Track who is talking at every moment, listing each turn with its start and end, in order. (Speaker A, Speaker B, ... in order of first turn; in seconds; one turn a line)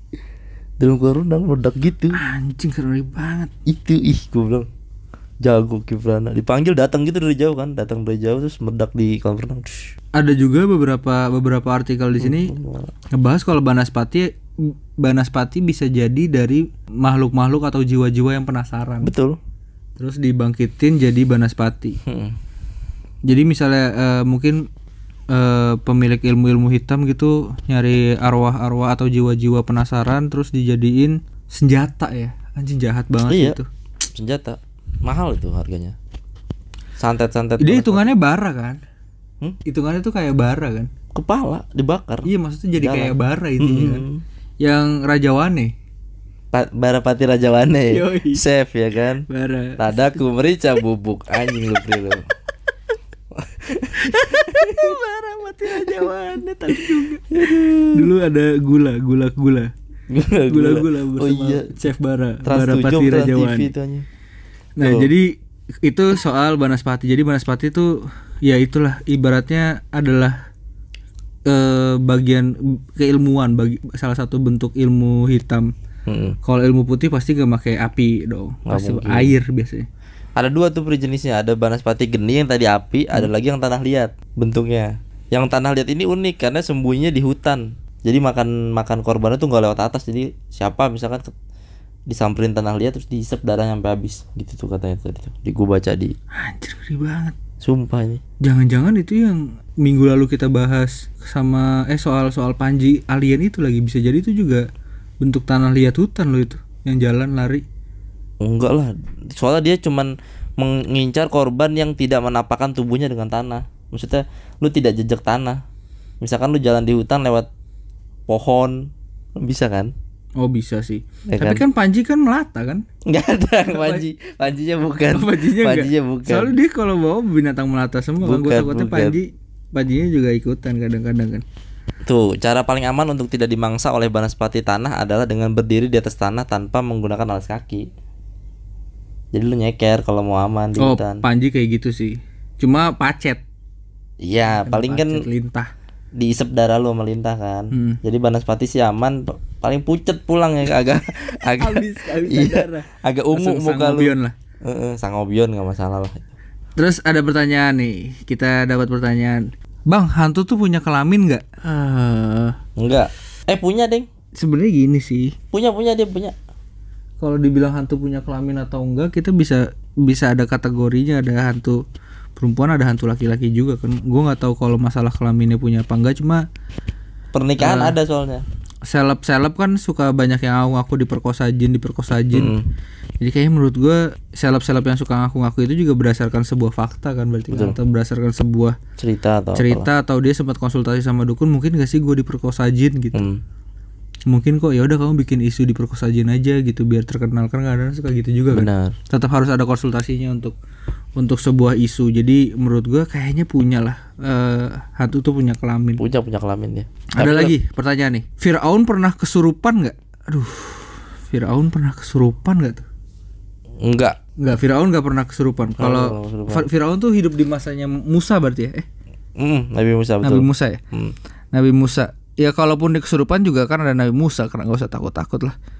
Speaker A: 0.8-2.2
Speaker B: 2.1-3.5
Speaker A: 3.7-4.7
Speaker A: 5.4-9.9
Speaker B: 10.2-12.5
Speaker A: 12.2-12.9
Speaker B: 13.1-19.1
Speaker A: 19.0-19.4
Speaker B: 20.0-22.0
Speaker A: 22.1-22.3
Speaker B: 23.2-24.7
Speaker B: 25.3-33.7
Speaker A: 33.3-33.6
Speaker A: 34.1-35.9
Speaker A: 37.0-38.1
Speaker B: 37.6-38.8
Speaker B: 39.6-40.9
Speaker A: 41.1-44.2
Speaker B: 42.2-44.0
Speaker B: 44.6-45.7
Speaker A: 46.5-49.2
Speaker B: 47.9-48.4
Speaker B: 49.3-49.9
Speaker A: 49.8-52.2
Speaker A: 53.4-55.0
Speaker B: 54.0-59.7
Speaker A: 55.7-56.1
Speaker A: 56.7-58.1
Speaker A: 60.1-61.7
Speaker B: 60.5-63.7
Speaker A: 62.4-64.0
Speaker B: 64.8-70.3
Speaker A: 64.8-65.1
Speaker B: 71.5-75.7
Speaker A: 76.1-76.4
Speaker B: 76.4-79.8
Speaker A: 78.7-79.3
Speaker A: 80.4-91.3
Speaker A: 92.1-96.1
Speaker B: 96.3-97.3
Speaker A: 97.6-98.2
Speaker B: 98.4-104.6
Speaker B: 105.2-107.6
Speaker A: 108.4-115.6
Speaker A: 116.2-117.5
Speaker A: 118.3-119.9
Speaker B: 120.4-122.8
Speaker A: 121.3-121.6
Speaker A: 123.0-126.5
Speaker B: 123.7-124.0
Speaker B: 125.1-131.4
Speaker A: 128.2-129.2
Speaker A: 132.0-137.9
Speaker A: 139.3-141.2
Speaker B: 140.8-143.4
Speaker A: 144.2-145.2
Speaker B: 144.6-145.7
Speaker A: 146.2-156.3
Speaker B: 147.7-148.0
Speaker B: 151.6-154.3
Speaker B: 156.8-162.6
Speaker A: 162.8-164.1
Speaker B: 164.4-165.3
Speaker A: 165.5-166.3
Speaker B: 167.2-171.8
Speaker B: 172.4-176.4
Speaker A: 177.3-178.4
Speaker B: 177.6-177.9
Speaker B: 178.9-182.5
Speaker A: 182.3-182.7
Speaker B: 183.2-188.8
Speaker A: 187.5-187.8
Speaker A: 189.0-189.9
Speaker B: 189.6-193.2
Speaker A: 193.1-193.4
Speaker B: 194.3-200.5
Speaker A: 198.5-198.9
Speaker B: 201.2-206.0
Speaker A: 206.0-207.5
Speaker B: 207.1-212.8
Speaker A: 213.8-214.2
Speaker B: 214.4-218.8
Speaker A: 215.8-216.7
Speaker A: 219.4-221.1
Speaker B: 220.2-220.8
Speaker B: 221.5-225.5